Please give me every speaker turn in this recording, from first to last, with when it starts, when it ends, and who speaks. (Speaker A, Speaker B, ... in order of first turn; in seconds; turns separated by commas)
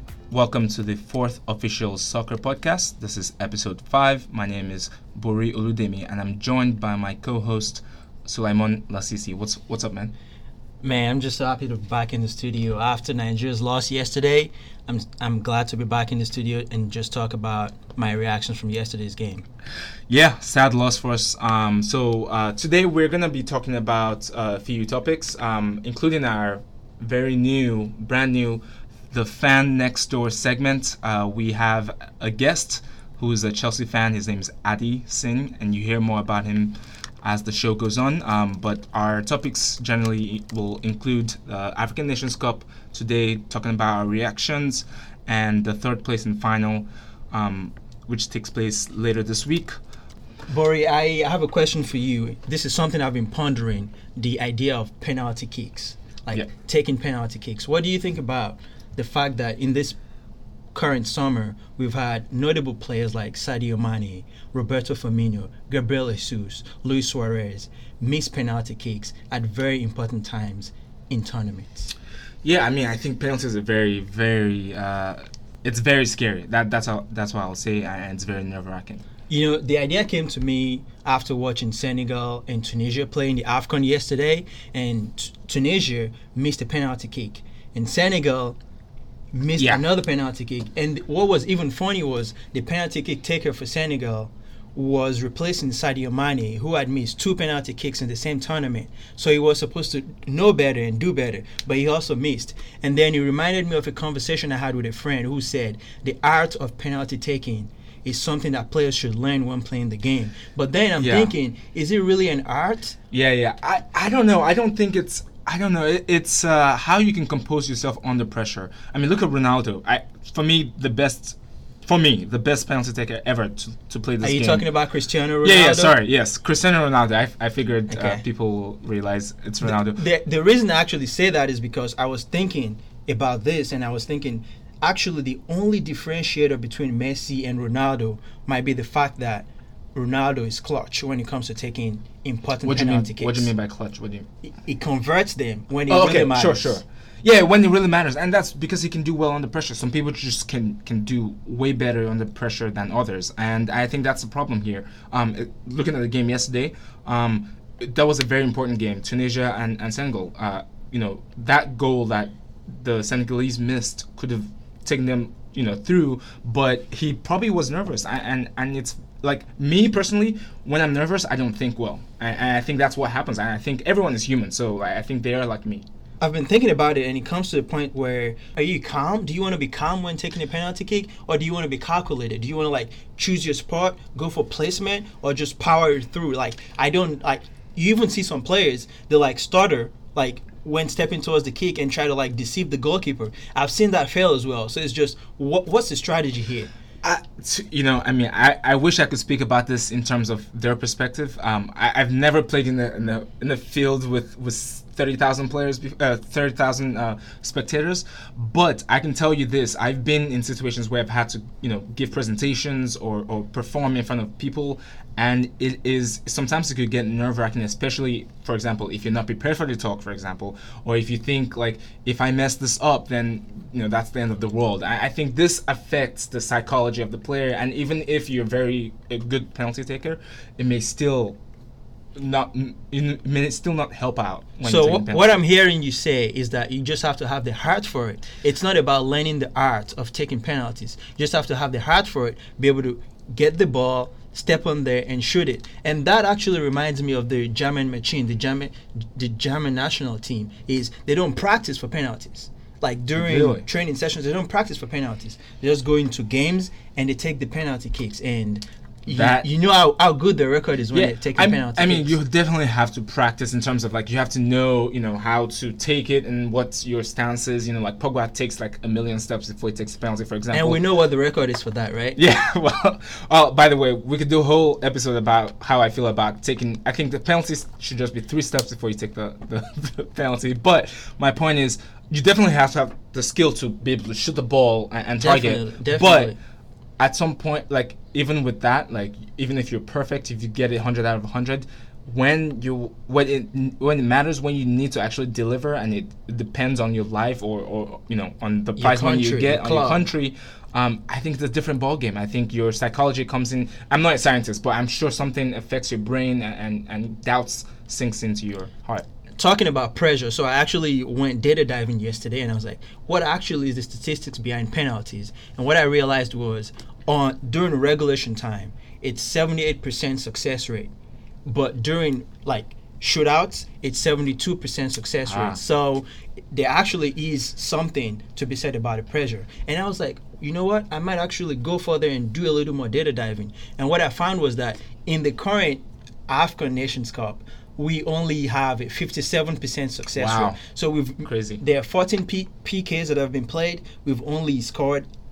Speaker A: 0.3-10.1, Speaker B: 10.8-19.4, Speaker A: 20.1-49.7, Speaker B: 50.5-60.0, Speaker B: 60.7-71.9, Speaker A: 72.4-79.0, Speaker B: 79.3-88.6, Speaker B: 89.3-113.0, Speaker A: 89.6-89.8, Speaker A: 111.0-111.3, Speaker A: 113.1-124.7, Speaker B: 124.2-125.9, Speaker A: 125.4-130.0, Speaker B: 127.9-128.2, Speaker B: 129.6-143.5, Speaker A: 142.6-144.3, Speaker B: 144.5-146.8, Speaker A: 145.9-175.8, Speaker B: 176.2-196.7, Speaker A: 197.0-231.4, Speaker A: 232.1-235.3, Speaker B: 234.6-262.2, Speaker A: 253.2-253.6, Speaker A: 259.1-259.4, Speaker A: 260.9-270.8, Speaker B: 270.5-272.2, Speaker A: 272.1-286.3, Speaker B: 285.2-286.4, Speaker A: 287.0-309.1, Speaker B: 298.8-300.0, Speaker B: 309.4-320.9, Speaker B: 321.4-345.1, Speaker A: 325.3-325.6, Speaker A: 340.1-340.6, Speaker A: 341.2-341.6